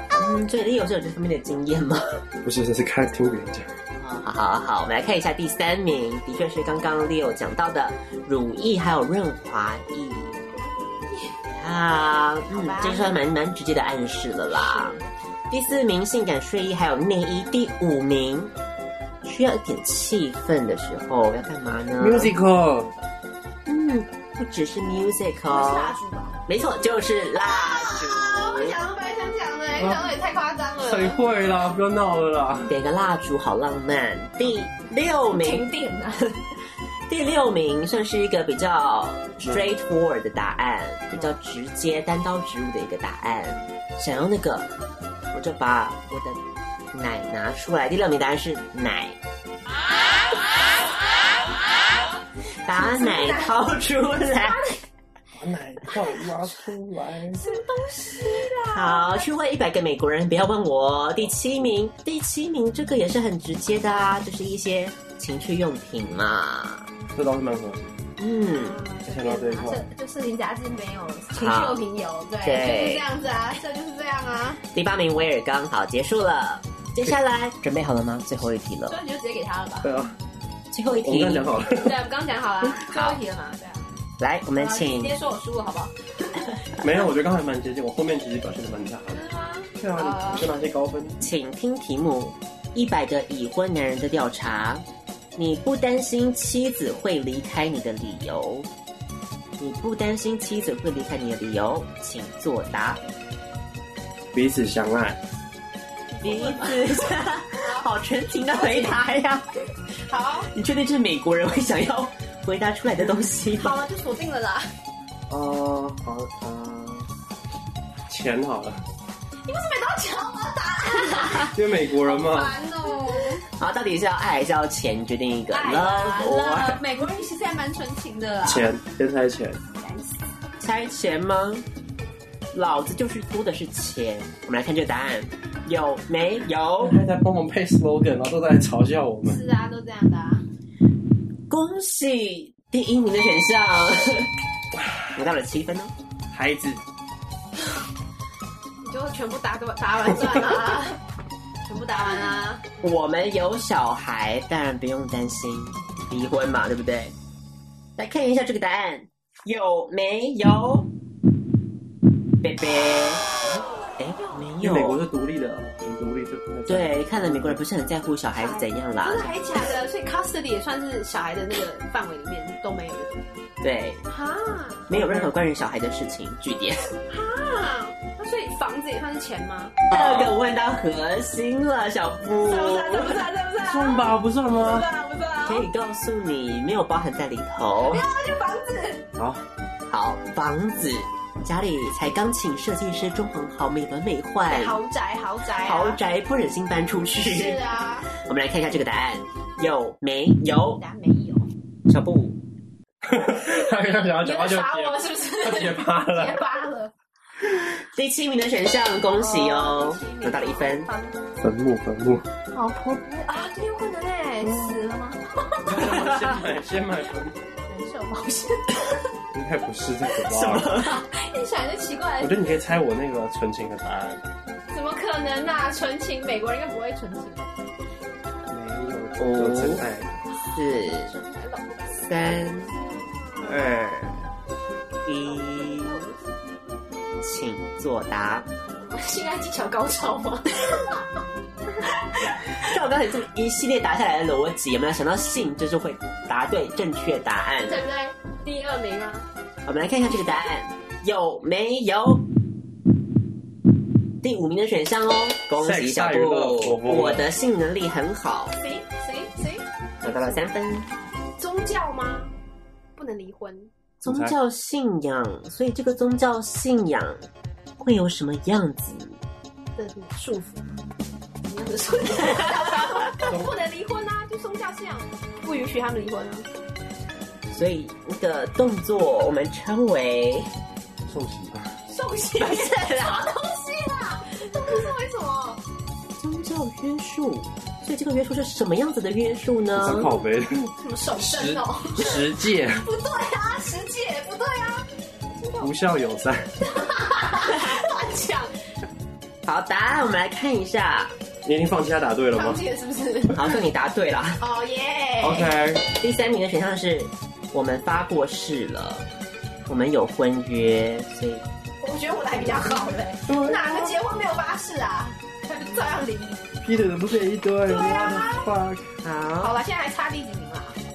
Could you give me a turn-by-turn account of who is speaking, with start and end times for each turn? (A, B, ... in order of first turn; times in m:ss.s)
0:00.2-0:02.2 A
0:02.4-0:03.7 B
0:04.0-0:10.4 A
0:11.5-0:18.5 A
0:12.5-0:13.2 C
0:14.5-0:15.1 C
0:19.2-0:22.4 A
0:22.0-0:22.9 B
0:23.7-0:26.0 A
0:25.5-0:26.4 C
0:26.5-0:28.8 A
0:27.3-0:31.2 C
0:29.8-0:30.1 B
0:30.8-0:32.7 B
0:32.7-0:35.7 A
0:35.3-0:36.4 C
0:37.1-0:44.7 A
0:45.3-0:46.4 A
0:46.9-0:49.2 A
0:52.6-0:54.6 A
0:52.7-0:53.7 C
0:54.2-0:54.8 C
0:55.4-0:57.4 B
0:57.4-0:59.2 C
0:58.7-1:06.9 A
1:07.2-1:08.0 B
1:08.2-1:08.8 A
1:08.5-1:14.6 C
1:09.1-1:09.8 B
1:11.3-1:11.8 A
1:12.4-1:13.1 A
1:14.7-1:19.0 A
1:18.9-1:19.9 C
1:19.8-1:20.2 B
1:20.7-1:21.5 A
1:21.0-1:22.0 B
1:21.8-1:23.9 C
1:22.9-1:23.2 A
1:24.2-1:25.2 A
1:24.6-1:26.6 C
1:26.8-1:29.2 B
1:29.1-1:30.5 C
1:29.8-1:31.2 B
1:31.2-1:38.7 A
1:39.6-1:43.0 A
1:44.3-1:45.2 B
1:46.1-1:47.9 C
1:46.2-1:49.5 A
1:48.5-1:49.0 C
1:50.0-1:50.5 C
1:50.5-1:53.8 A
1:53.6-1:54.7 C
1:55.3-1:57.1 B
1:58.1-1:58.8 B
1:59.4-2:03.4 C
2:01.2-2:02.6 B
2:03.6-2:06.8 A
2:05.5-2:08.7 C
2:08.4-2:09.6 B
2:09.7-2:10.3 C
2:10.6-2:11.7 A
2:12.5-2:17.0 A
2:16.8-2:19.4 B
2:19.2-2:20.4 C
2:21.5-2:24.3 A
2:24.8-2:25.1 B
2:25.2-2:25.9 A
2:26.3-2:26.8 B
2:28.8-2:31.0 C
2:31.6-2:32.6 C
2:32.8-2:37.2 A
2:38.0-2:40.9 A
2:42.4-2:45.0 A
2:44.2-2:44.4 C
2:44.6-2:47.6 B
2:46.7-2:49.4 A
2:48.4-2:53.3 C
2:53.6-2:54.0 A
2:54.1-2:54.8 C
2:54.9-2:56.9 A
2:54.9-2:55.3 B
2:57.1-2:59.8 C
2:59.9-3:03.2 A
2:59.9-3:00.3 B
3:02.4-3:05.7 C
3:03.7-3:04.9 B
3:05.4-3:08.0 A
3:07.8-3:09.0 C
3:09.2-3:09.4 B
3:09.9-3:14.8 A
3:14.5-3:16.0 C
3:15.6-3:17.6 A
3:17.2-3:18.1 C
3:18.1-3:20.8 A
3:20.7-3:21.5 C
3:21.9-3:22.4 A
3:23.0-3:26.4 B
3:23.5-3:26.9 C
3:27.5-3:30.9 A
3:29.2-3:31.2 C
3:31.4-3:32.3 B
3:32.5-3:35.9 C
3:34.5-3:34.7 B
3:35.6-3:37.4 B
3:35.8-3:36.3 A
3:37.7-3:39.1 C
3:39.3-3:40.7 B
3:40.3-3:41.0 A
3:40.7-3:42.4 C
3:42.2-3:44.2 B
3:44.7-3:47.5 C
3:48.5-3:50.2 B
3:49.2-3:49.9 A
3:50.4-3:51.1 A
3:50.6-3:53.7 C
3:52.0-3:52.7 A
3:53.4-3:54.3 A
3:55.0-3:56.0 A
3:55.1-3:56.3 C
3:57.2-3:58.5 A
3:58.8-4:01.1 C
4:02.4-4:07.8 A
4:07.7-4:09.3 C
4:09.7-4:12.3 A
4:14.2-4:18.6 A
4:15.6-4:17.3 B
4:18.5-4:19.7 C
4:20.0-4:20.9 A
4:21.4-4:22.3 C
4:23.0-4:23.7 C
4:24.0-4:24.4 B
4:24.0-4:27.3 A
4:27.8-4:29.2 A
4:29.8-4:30.7 C
4:31.5-4:36.5 C
4:37.5-4:40.5 A
4:41.1-4:41.8 B
4:41.9-4:45.6 C
4:42.4-4:43.3 A
4:46.2-4:50.1 A
4:49.8-4:52.8 B
4:50.8-4:55.7 C
4:55.6-4:56.5 B
4:56.7-4:58.5 C
4:59.5-5:01.2 A
5:01.4-5:02.6 B
5:02.3-5:03.4 C
5:03.3-5:04.4 A
5:04.4-5:05.5 C
5:05.2-5:05.8 B
5:05.9-5:09.1 A
5:09.7-5:11.4 A
5:11.8-5:16.5 C
5:13.3-5:14.0 B
5:15.6-5:16.0 A
5:16.6-5:18.9 B
5:17.7-5:18.5 C
5:19.0-5:19.6 A
5:19.4-5:20.8 C